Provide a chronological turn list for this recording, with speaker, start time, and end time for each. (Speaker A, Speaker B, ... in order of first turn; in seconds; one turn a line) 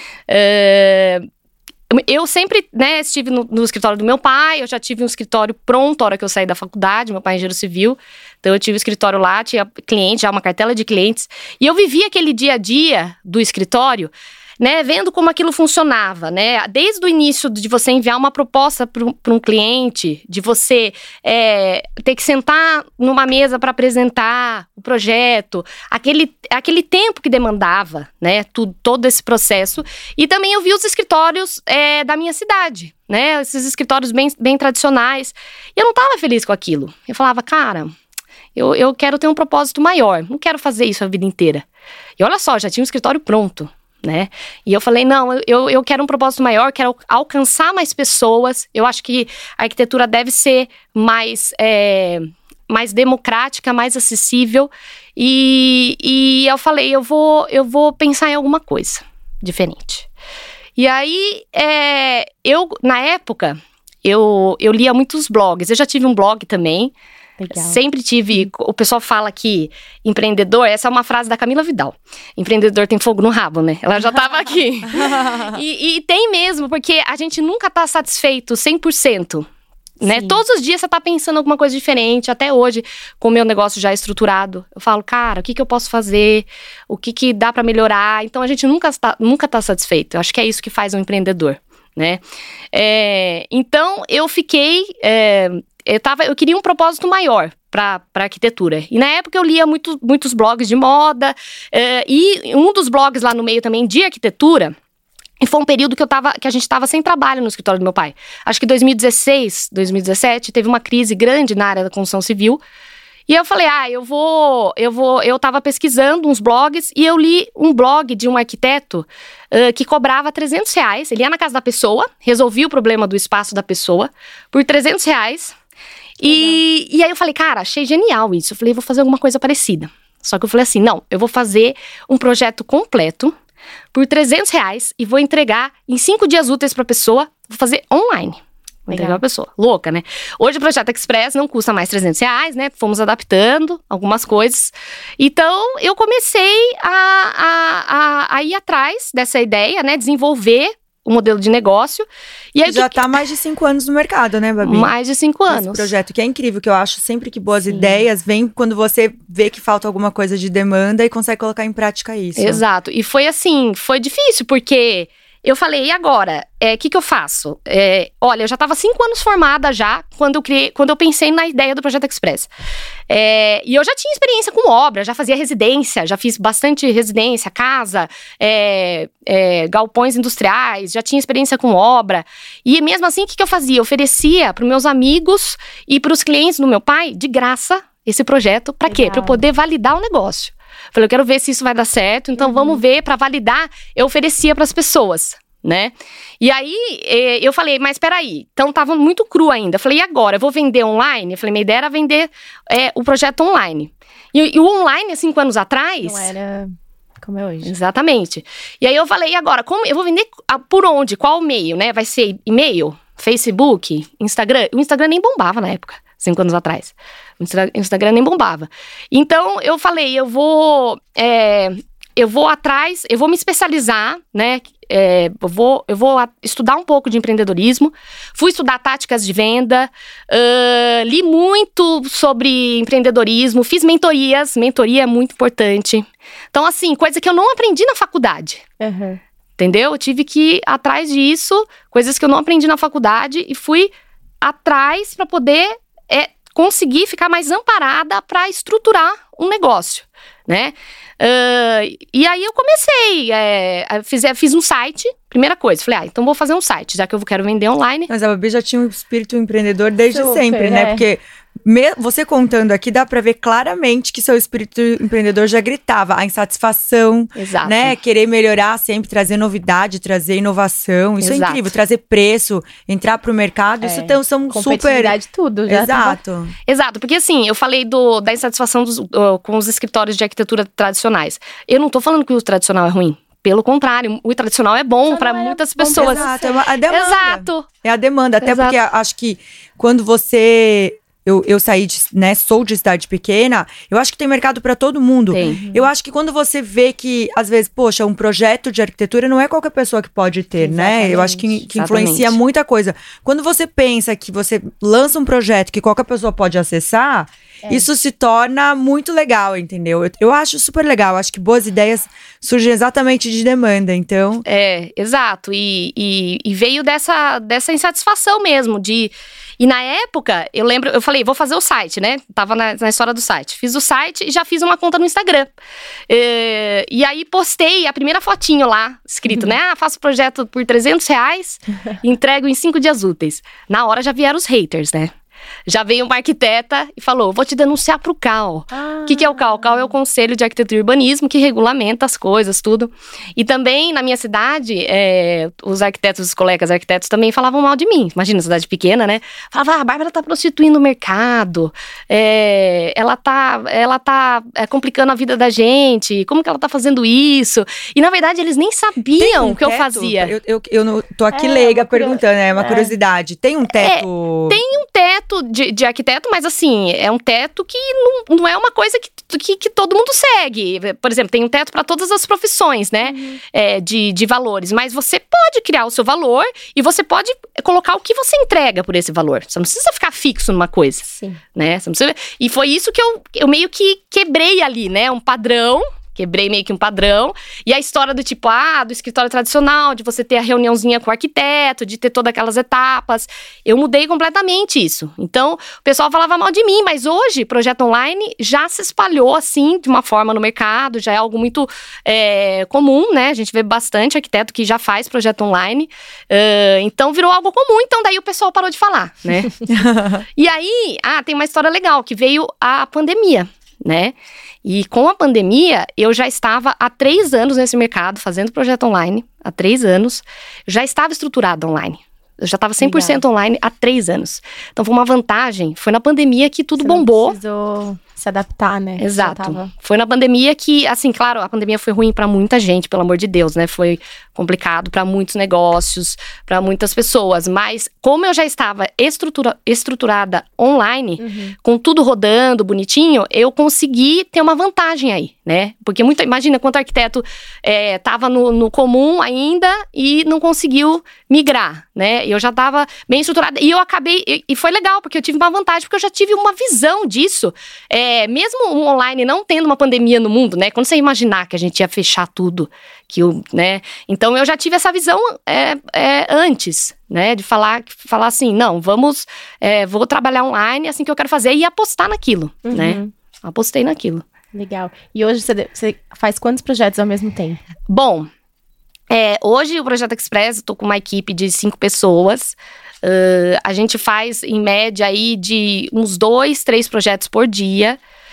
Speaker A: 0.3-1.3
Speaker A: 1.9-37.9
Speaker A: 38.5-41.6
Speaker A: 42.2-60.1
Speaker A: 60.8-66.9
Speaker B: 67.4-67.8
Speaker A: 67.5-79.5
Speaker C: 75.1-75.5
Speaker B: 80.0-80.4
Speaker A: 80.0-92.2
Speaker A: 92.7-104.7
Speaker A: 105.4-112.6
Speaker A: 113.3-125.5
Speaker B: 126.2-126.6
Speaker A: 126.2-133.3
Speaker A: 133.9-153.1
Speaker B: 138.9-139.2
Speaker C: 152.7-154.9
Speaker A: 154.6-155.9
Speaker C: 155.5-162.6
Speaker B: 157.7-158.0
Speaker A: 162.4-172.5
Speaker A: 173.1-206.3
Speaker B: 188.9-189.4
Speaker B: 192.4-192.8
Speaker B: 206.0-207.7
Speaker A: 207.7-238.6
Speaker B: 238.8-239.2
Speaker A: 239.6-258.1
Speaker C: 258.1-275.2
Speaker B: 260.1-261.0
Speaker A: 267.4-267.9
Speaker A: 271.2-271.7
Speaker B: 273.8-276.2
Speaker C: 275.7-276.5
Speaker A: 276.7-286.3
Speaker B: 285.1-286.6
Speaker C: 285.9-314.4
Speaker A: 286.9-287.7
Speaker A: 288.4-288.8
Speaker A: 295.3-295.6
Speaker B: 295.4-295.9
Speaker B: 300.6-301.6
Speaker A: 301.7-302.4
Speaker B: 307.6-307.9
Speaker A: 314.5-325.5
Speaker A: 326.1-335.1
Speaker A: 335.7-360.3
Speaker B: 338.7-339.9
Speaker C: 359.2-364.6
Speaker B: 361.3-362.9
Speaker A: 363.8-409.6
Speaker B: 373.1-373.4
Speaker B: 381.1-381.4
Speaker C: 409.7-410.2
Speaker A: 410.4-427.4
Speaker B: 422.8-423.2
Speaker B: 426.8-429.7
Speaker A: 429.0-474.2
Speaker B: 441.2-441.6
Speaker B: 472.7-473.1
Speaker B: 474.5-477.6
Speaker A: 477.9-478.3
Speaker A: 479.1-488.0